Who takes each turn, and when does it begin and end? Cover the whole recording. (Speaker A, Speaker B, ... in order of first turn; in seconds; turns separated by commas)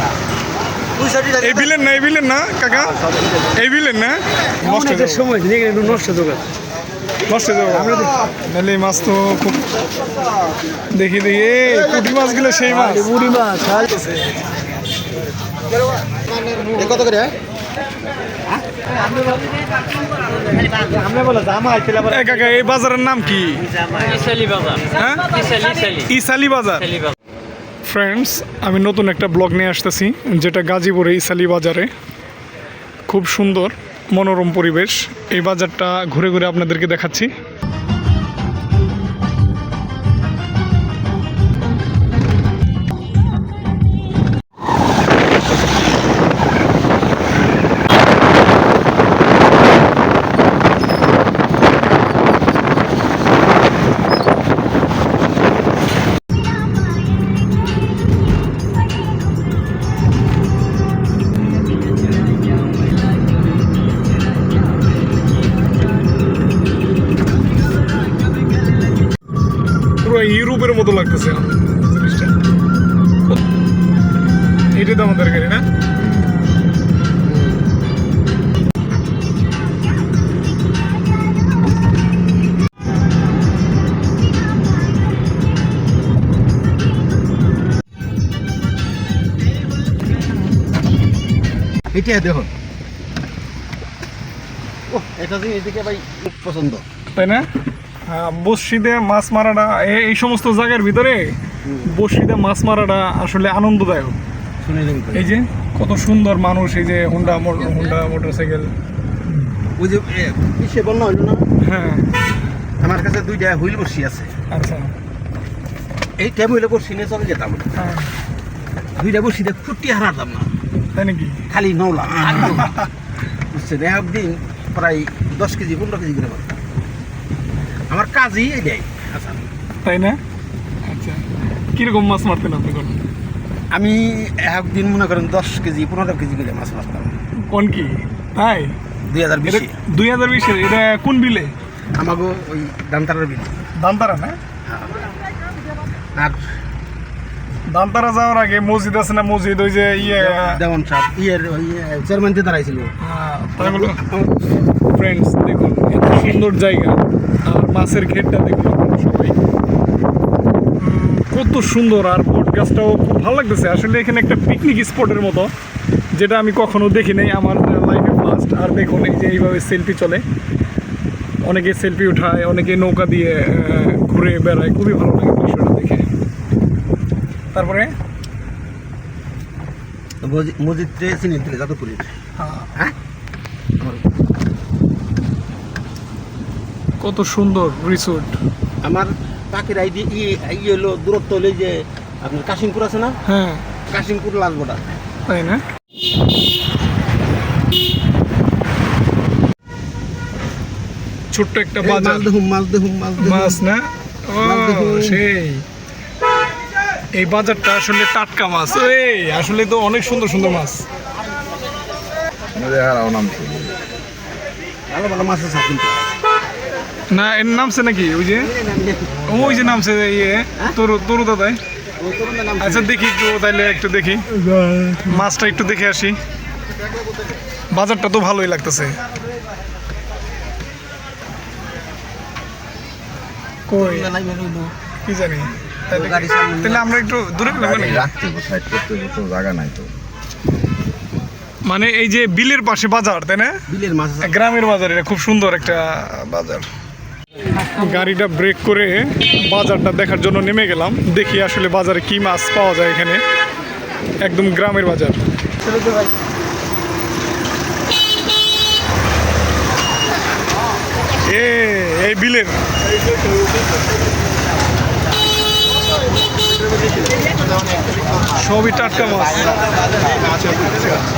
Speaker A: 1.0-1.5, Speaker B: 1.4-3.0, Speaker B: 3.5-5.4, Speaker C: 5.3-6.4, Speaker B: 7.3-9.7, Speaker B: 10.9-13.2, Speaker C: 13.2-13.8, Speaker B: 13.8-14.2, Speaker A: 16.5-17.3, Speaker C: 20.9-21.9, Speaker B: 21.8-24.3, Speaker B: 24.9-27.0, Speaker B: 27.8-31.9, Speaker B: 33.1-37.3, Speaker B: 70.0-72.3, Speaker B: 74.7-75.7, Speaker A: 91.9-92.5, Speaker A: 94.9-96.8, Speaker B: 97.1-97.4, Speaker B: 98.0-104.2, Speaker A: 101.6-101.9, Speaker A: 104.6-105.3, Speaker B: 105.1-108.7, Speaker A: 109.8-111.4, Speaker B: 111.6-112.0, Speaker A: 112.8-114.3, Speaker B: 114.5-114.9, Speaker A: 116.2-117.7, Speaker B: 117.8-118.1, Speaker A: 119.0-120.5, Speaker B: 120.9-121.4, Speaker A: 121.5-122.7, Speaker A: 123.5-126.5, Speaker A: 127.9-129.5, Speaker B: 129.8-130.2, Speaker B: 130.8-131.2, Speaker B: 131.7-133.0, Speaker A: 133.7-137.1, Speaker B: 137.4-138.8, Speaker A: 139.1-139.7, Speaker B: 139.5-141.5, Speaker A: 141.9-143.6, Speaker B: 143.8-144.3, Speaker A: 144.7-144.9, Speaker A: 146.1-146.4, Speaker B: 147.7-150.6, Speaker A: 150.0-152.9, Speaker B: 153.0-154.0, Speaker A: 153.6-154.4, Speaker B: 154.8-159.4, Speaker B: 160.8-165.5, Speaker B: 166.1-170.2, Speaker B: 171.4-176.1, Speaker B: 177.5-177.9, Speaker A: 180.2-182.1, Speaker B: 182.4-182.7, Speaker B: 187.0-188.3, Speaker A: 188.8-193.2, Speaker B: 193.2-193.6, Speaker A: 193.9-194.8, Speaker B: 195.3-195.6, Speaker B: 201.3-202.2, Speaker A: 201.8-203.6, Speaker B: 203.2-205.6, Speaker A: 204.4-205.2, Speaker B: 207.1-210.8, Speaker D: 212.5-213.8, Speaker A: 214.9-216.0, Speaker B: 217.1-218.5, Speaker A: 218.3-219.4, Speaker B: 219.2-221.6, Speaker A: 222.0-222.9, Speaker B: 222.6-226.2, Speaker B: 227.7-229.0, Speaker B: 233.7-234.1, Speaker A: 233.8-234.7, Speaker B: 235.1-238.2, Speaker A: 235.9-237.0, Speaker D: 237.6-239.9, Speaker B: 241.6-243.6, Speaker A: 243.7-244.3, Speaker B: 244.2-246.7, Speaker B: 247.7-253.2, Speaker B: 254.2-255.2, Speaker B: 261.2-262.6, Speaker B: 268.4-269.5